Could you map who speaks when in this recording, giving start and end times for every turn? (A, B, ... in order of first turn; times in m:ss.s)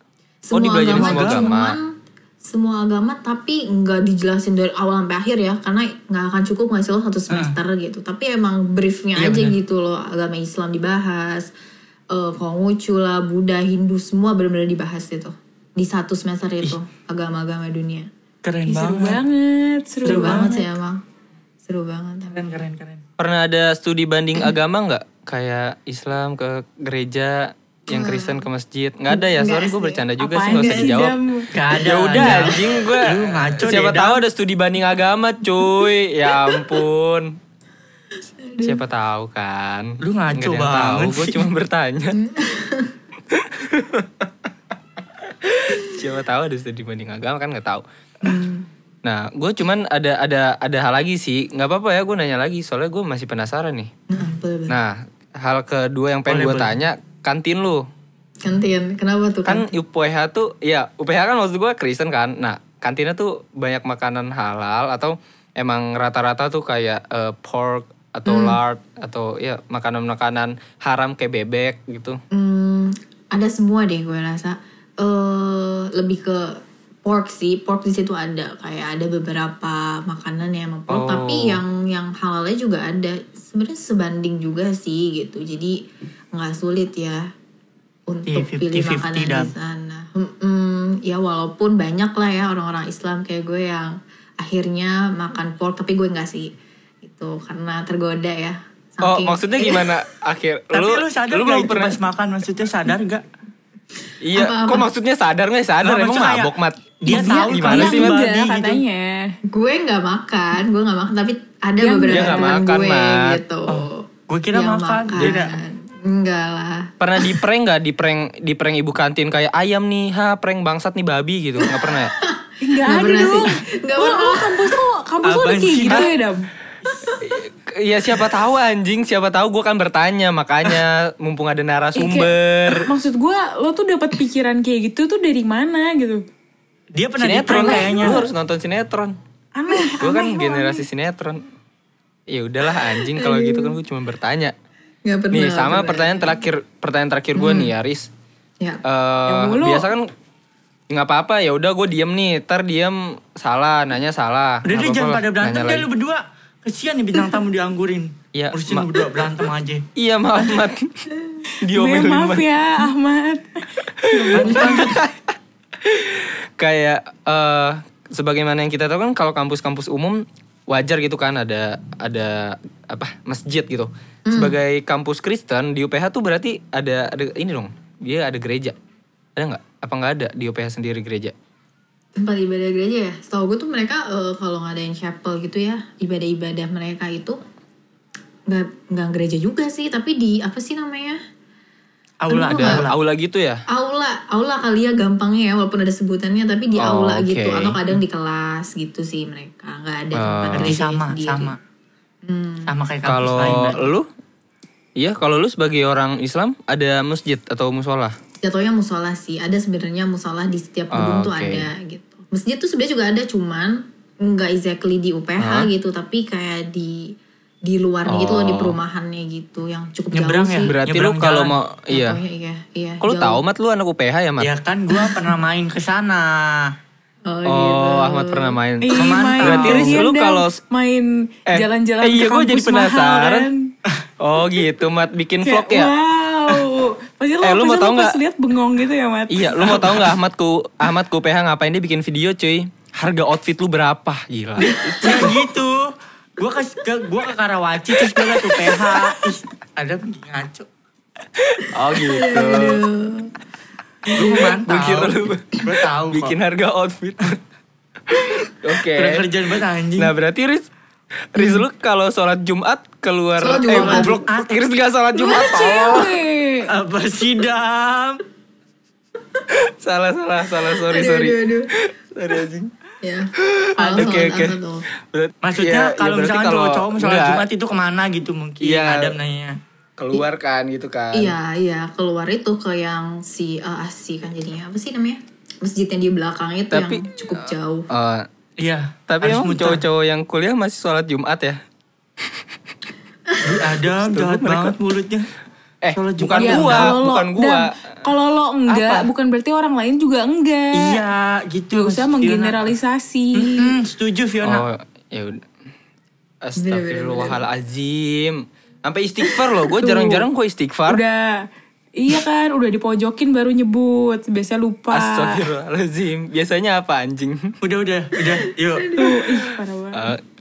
0:00.4-0:11.5 A
0:00.5-0:01.8 B
0:00.9-0:01.5 C
0:07.3-0:07.6 C
0:09.2-0:09.5 C
0:12.1-0:18.1 A
0:18.4-0:19.2 C
0:18.6-0:20.6 D
0:20.0-0:20.5 C
0:20.0-0:21.0 A
0:21.6-0:22.6 A
0:22.3-0:23.0 C
0:23.2-0:31.2 B
0:27.9-0:28.4 A
0:29.1-0:30.0 A
0:30.2-0:31.5 D
0:31.5-0:34.2 C
0:31.8-0:37.4 B
0:38.4-0:38.8 A
0:38.6-0:42.2 B
0:40.0-0:41.4 C
0:42.1-0:42.9 A
0:43.3-0:44.3 B
0:45.4-0:47.8 B
0:48.2-0:48.6 A
0:49.0-0:53.9 B
0:54.1-0:54.8 A
0:54.7-0:57.8 B
0:56.3-0:56.7 C
0:58.4-0:59.8 A
0:59.4-1:12.2 B
1:08.2-1:08.6 A
1:12.3-1:25.8 A
1:20.9-1:21.6 B
1:26.3-1:27.3 A
1:28.1-1:36.5 A
1:28.3-1:29.5 C
1:37.0-1:39.9 A
1:39.0-1:42.0 B
1:40.7-1:43.2 C
1:44.2-1:48.1 B
1:44.3-1:44.9 A
1:45.8-1:48.8 C
1:47.1-1:49.4 D
1:49.5-1:57.4 A
1:51.8-1:52.4 D
1:52.1-1:53.4 B
1:53.7-1:55.5 C
1:57.0-2:02.1 B
2:01.6-2:04.8 A
2:02.6-2:06.5 D
2:05.2-2:06.1 C
2:07.2-2:12.9 B
2:12.0-2:16.2 D
2:16.9-2:18.2 C
2:17.2-2:19.2 B
2:17.4-2:18.2 D
2:19.6-2:20.8 D
2:20.0-2:21.4 B
2:22.3-2:24.5 B
2:25.0-2:26.4 A
2:25.3-2:28.1 B
2:27.4-2:27.7 A
2:28.8-2:30.1 B
2:29.3-2:29.9 D
2:30.9-2:35.9 B
2:34.6-2:39.8 C
2:38.3-2:38.9 B
2:40.0-2:40.9 B
2:41.6-2:42.4 B
2:41.7-2:45.0 D
2:44.0-2:58.7 B
2:44.3-2:45.0 C
2:54.3-2:54.6 A
2:59.4-3:01.3 B
3:02.1-3:07.4 A
3:08.5-3:11.2 A
3:12.2-3:12.9 C
3:12.3-3:12.8 A
3:12.5-3:13.6 B
3:13.7-3:21.6 A
3:16.8-3:17.8 B
3:20.1-3:20.8 B
3:20.5-3:21.6 C
3:22.2-3:22.7 A
3:22.7-3:23.9 C
3:23.0-3:24.1 B
3:25.0-3:28.1 B
3:28.4-3:37.1 A
3:30.9-3:31.7 B
3:35.4-3:35.7 B
3:37.6-3:40.7 A
3:38.1-3:38.8 B
3:40.1-3:41.5 C
3:40.6-3:42.2 B
3:41.9-3:43.4 A
3:43.0-3:44.5 B
3:44.4-3:46.7 C
3:47.3-3:48.5 A
3:47.5-3:50.5 B
3:48.8-3:53.6 D
3:48.9-3:50.0 C
3:51.5-3:53.5 B
3:54.2-3:55.9 B
3:55.4-3:59.9 D
3:57.4-3:58.2 B
3:59.3-4:05.3 B
3:59.6-4:00.1 C
4:04.6-4:10.7 C
4:04.7-4:05.3 A
4:11.7-4:12.8 B
4:12.0-4:13.3 A
4:14.0-4:16.4 C
4:14.2-4:17.4 B
4:18.1-4:19.2 B
4:18.8-4:20.1 C
4:20.0-4:20.7 B
4:21.3-4:26.1 B
4:21.4-4:21.6 A
4:23.4-4:24.2 A
4:23.7-4:24.6 C
4:25.1-4:26.7 D
4:26.7-4:28.2 C
4:29.7-4:32.7 B
4:30.7-4:31.7 A
4:33.0-4:34.8 A
4:33.4-4:37.4 B
4:35.4-4:39.6 C
4:38.6-4:39.2 B
4:40.0-4:41.3 B
4:41.1-4:47.9 A
4:46.7-4:48.3 B
4:48.6-4:49.8 C
4:49.1-4:51.6 B
4:53.4-4:55.3 C
4:54.0-4:54.8 B
4:55.8-4:57.7 B
4:55.9-4:56.9 C
4:56.4-5:01.0 D
4:58.7-4:59.1 B
5:00.7-5:02.7 C
5:01.7-5:03.7 D
5:03.3-5:04.6 C
5:04.4-5:05.5 B
5:06.4-5:11.0 B
5:06.6-5:07.4 A
5:09.6-5:10.2 D
5:10.9-5:11.4 D
5:12.0-5:15.5 D
5:14.9-5:17.5 B
5:17.6-5:19.0 C
5:18.4-5:19.5 A
5:18.9-5:20.1 D
5:19.9-5:20.2 B